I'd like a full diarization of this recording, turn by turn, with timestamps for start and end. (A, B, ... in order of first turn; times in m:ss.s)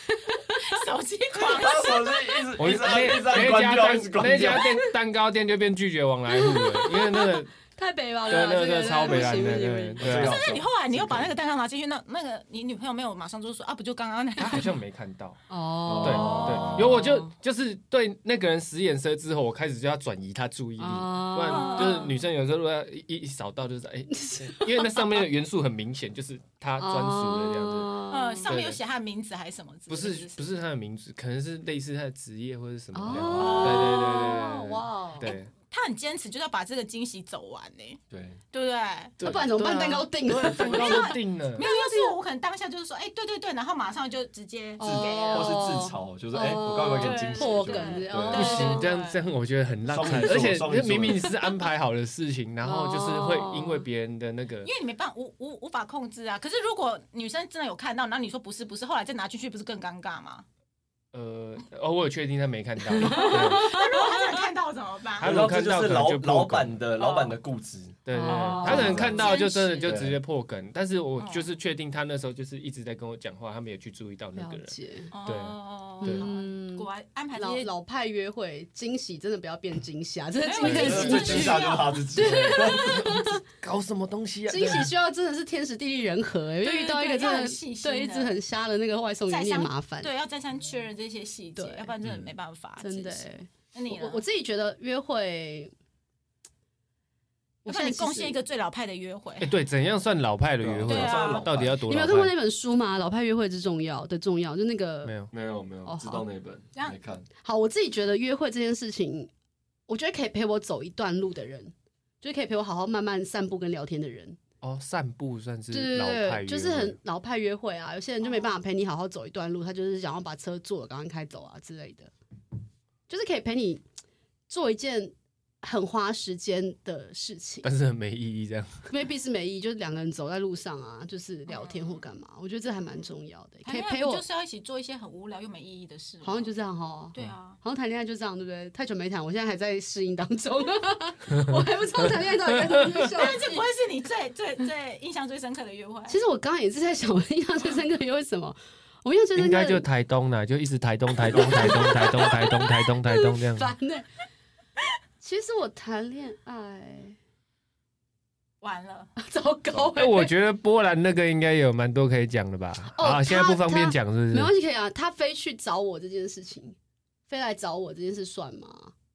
0:00.1-0:00.6 A
0:00.6-0:02.4 B
0:01.3-0:04.7 C
0:02.6-0:07.5 D
0:06.3-0:10.3 A
0:08.3-0:10.4 D
0:09.0-0:11.3 C
0:10.1-0:14.7 B
0:14.4-0:15.4 D
0:15.5-0:17.3 A
0:15.8-0:17.0 C
0:16.0-0:28.8 D
0:16.0-0:16.9 B
0:20.8-0:22.0 A
0:21.4-0:22.1 B
0:24.1-0:25.1 A
0:26.8-0:28.5 A
0:28.1-0:30.4 B
0:29.9-0:35.5 D
0:32.9-0:35.3 A
0:33.3-0:34.3 B
0:35.2-0:38.0 B
0:38.1-0:38.4 C
0:38.5-0:45.8 B
0:39.2-0:42.2 A
0:39.2-0:41.7 D
0:44.8-0:48.9 A
0:44.8-0:48.6 C
0:46.9-0:49.2 B
0:48.3-0:54.7 D
0:49.9-0:51.3 C
0:52.6-0:53.8 A
0:54.6-1:00.4 B
1:01.1-1:03.7 D
1:03.0-1:04.2 A
1:03.1-1:05.3 B
1:05.2-1:06.8 D
1:05.2-1:08.0 C
1:07.0-1:07.3 B
1:08.0-1:16.3 D
1:08.1-1:09.2 A
1:08.2-1:10.0 B
1:08.6-1:09.3 C
1:09.8-1:10.2 C
1:11.2-1:11.5 B
1:14.4-1:15.1 A
1:15.1-1:17.7 B
1:16.0-1:23.4 A
1:20.4-1:22.0 B
1:20.6-1:21.5 D
1:20.7-1:23.2 C
1:22.2-1:24.9 D
1:24.5-1:30.1 A
1:26.6-1:28.4 B
1:29.3-1:34.2 B
1:31.6-1:31.9 A
1:32.8-1:35.7 A
1:37.6-1:38.4 A
1:37.6-1:39.5 B
1:39.4-1:42.3 D
1:40.6-1:41.8 C
1:40.9-1:41.5 B
1:41.9-1:45.2 A
1:45.0-1:45.3 D
1:45.3-1:47.2 C
1:45.8-1:46.2 A
1:47.4-1:49.3 A
1:49.9-1:54.4 A
1:54.6-1:57.0 D
1:55.7-2:02.1 A
2:03.1-2:03.8 A
2:04.5-2:07.7 A
2:07.6-2:08.9 D
2:08.9-2:14.2 A
2:11.5-2:12.0 B
2:13.6-2:16.5 B
2:16.2-2:23.6 A
2:17.1-2:17.6 B
2:21.3-2:23.0 D
2:23.1-2:26.2 B
2:26.1-2:29.8 A
2:29.4-2:33.7 D
2:31.3-2:34.0 A
2:35.2-2:37.2 A
2:38.6-2:39.1 B
2:39.2-2:40.3 A
2:39.9-2:44.5 D
2:42.9-2:46.8 A
2:47.3-2:48.9 A